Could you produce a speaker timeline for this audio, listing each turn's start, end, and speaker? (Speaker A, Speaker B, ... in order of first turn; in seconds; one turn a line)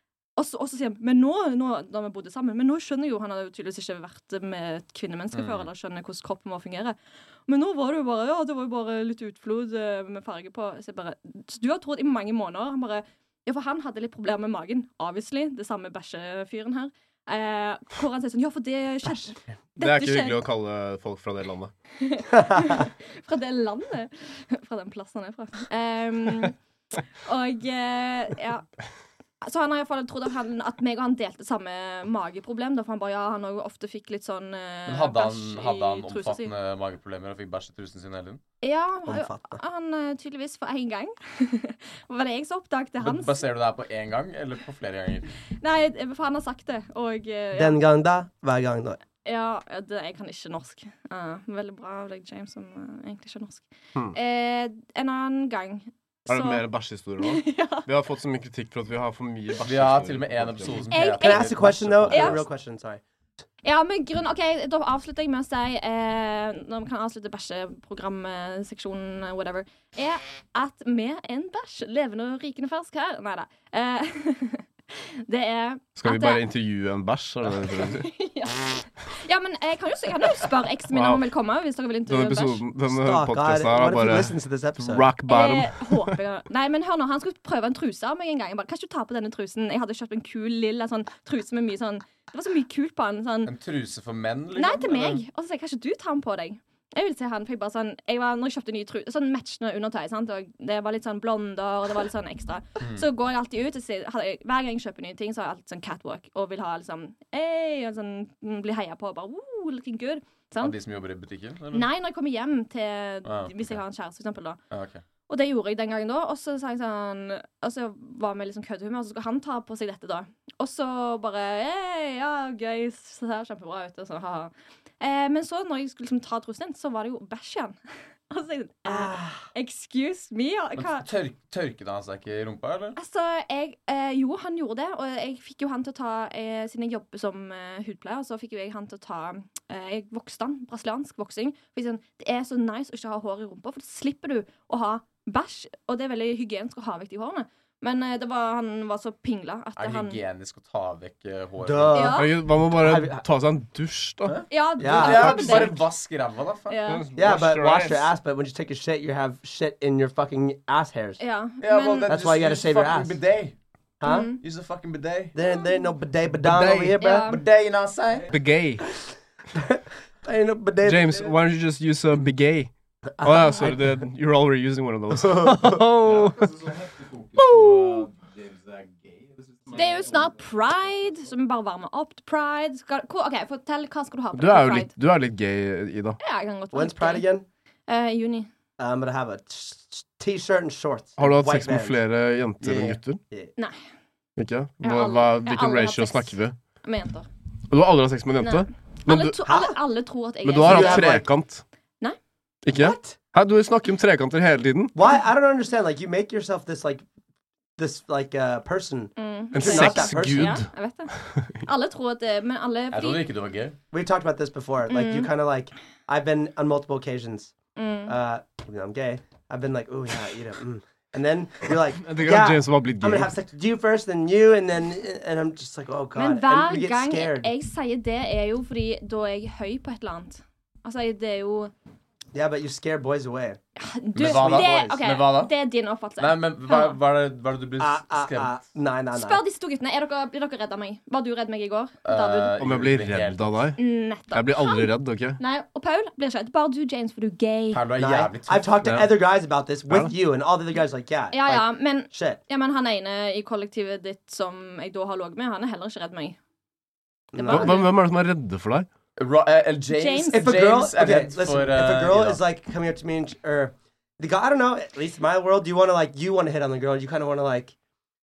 Speaker A: 0.4-20.4
Speaker B: 5.3-5.7
Speaker C: 19.8-21.7
Speaker A: 22.0-26.6
Speaker A: 27.2-28.7
Speaker A: 29.4-36.5
Speaker B: 34.9-38.4
Speaker A: 38.6-43.4
Speaker D: 39.0-39.6
Speaker B: 43.0-45.4
Speaker A: 45.6-47.8
Speaker D: 47.5-49.0
Speaker A: 49.2-56.6
Speaker C: 56.3-60.9
Speaker A: 57.2-57.9
Speaker B: 59.6-62.4
Speaker A: 60.9-61.5
Speaker D: 61.2-63.0
Speaker A: 62.1-62.4
Speaker A: 63.6-76.4
Speaker C: 76.0-78.1
Speaker A: 77.7-82.6
Speaker C: 80.9-81.2
Speaker C: 82.1-86.1
Speaker D: 82.9-85.1
Speaker A: 85.3-93.5
Speaker B: 93.5-95.2
Speaker A: 94.5-110.8
Speaker B: 102.8-103.0
Speaker B: 110.6-111.9
Speaker A: 111.7-114.6
Speaker B: 113.2-113.8
Speaker B: 114.7-115.0
Speaker A: 115.3-127.8
Speaker A: 128.3-131.1
Speaker D: 128.9-129.4
Speaker B: 130.8-133.0
Speaker A: 132.9-150.2
Speaker B: 149.8-152.0
Speaker D: 151.6-153.2
Speaker A: 151.9-152.3
Speaker C: 152.1-154.4
Speaker B: 154.3-156.8
Speaker A: 154.5-155.8
Speaker D: 154.8-155.8
Speaker A: 156.7-157.1
Speaker C: 156.9-158.1
Speaker D: 157.2-161.2
Speaker A: 161.2-162.1
Speaker B: 161.6-163.6
Speaker D: 162.1-163.2
Speaker D: 164.0-164.3
Speaker A: 164.0-164.4
Speaker B: 164.4-165.3
Speaker D: 165.3-167.3
Speaker C: 166.3-167.0
Speaker A: 167.0-167.4
Speaker B: 167.1-168.3
Speaker C: 168.3-168.8
Speaker D: 169.5-171.3
Speaker C: 170.8-176.7
Speaker D: 173.2-173.8
Speaker D: 175.1-175.8
Speaker C: 177.3-178.1
Speaker A: 179.7-184.9
Speaker C: 184.3-186.2
Speaker A: 186.2-187.2
Speaker D: 186.7-187.4
Speaker A: 187.9-188.5
Speaker D: 188.8-192.0
Speaker C: 191.2-193.2
Speaker D: 192.6-193.5
Speaker C: 194.4-196.6
Speaker A: 194.8-197.3
Speaker C: 197.7-199.4
Speaker A: 198.4-201.2
Speaker D: 199.4-199.8
Speaker C: 200.4-201.6
Speaker D: 200.6-201.3
Speaker C: 202.6-204.9
Speaker D: 202.7-203.2
Speaker D: 204.9-207.0
Speaker D: 207.8-210.6
Speaker A: 209.2-213.2
Speaker C: 209.5-211.6
Speaker B: 212.9-213.8
Speaker D: 213.9-217.5
Speaker A: 214.9-215.3
Speaker A: 217.8-218.1
Speaker D: 218.1-227.5
Speaker C: 222.0-223.3
Speaker A: 226.1-231.7
Speaker D: 232.3-233.6
Speaker A: 233.8-237.0
Speaker B: 234.1-235.5
Speaker D: 234.2-235.0
Speaker B: 236.2-238.5
Speaker D: 237.8-239.4
Speaker A: 239.1-242.5
Speaker B: 242.0-243.6
Speaker C: 242.6-243.8
Speaker A: 243.8-247.8
Speaker C: 244.3-245.4
Speaker B: 247.7-248.8
Speaker D: 248.0-252.4
Speaker C: 248.8-249.1
Speaker C: 249.9-250.1
Speaker A: 251.3-256.4
Speaker D: 257.3-257.8
Speaker A: 257.3-257.9
Speaker C: 257.5-258.9
Speaker B: 259.2-262.4
Speaker A: 259.9-260.5
Speaker D: 260.3-267.7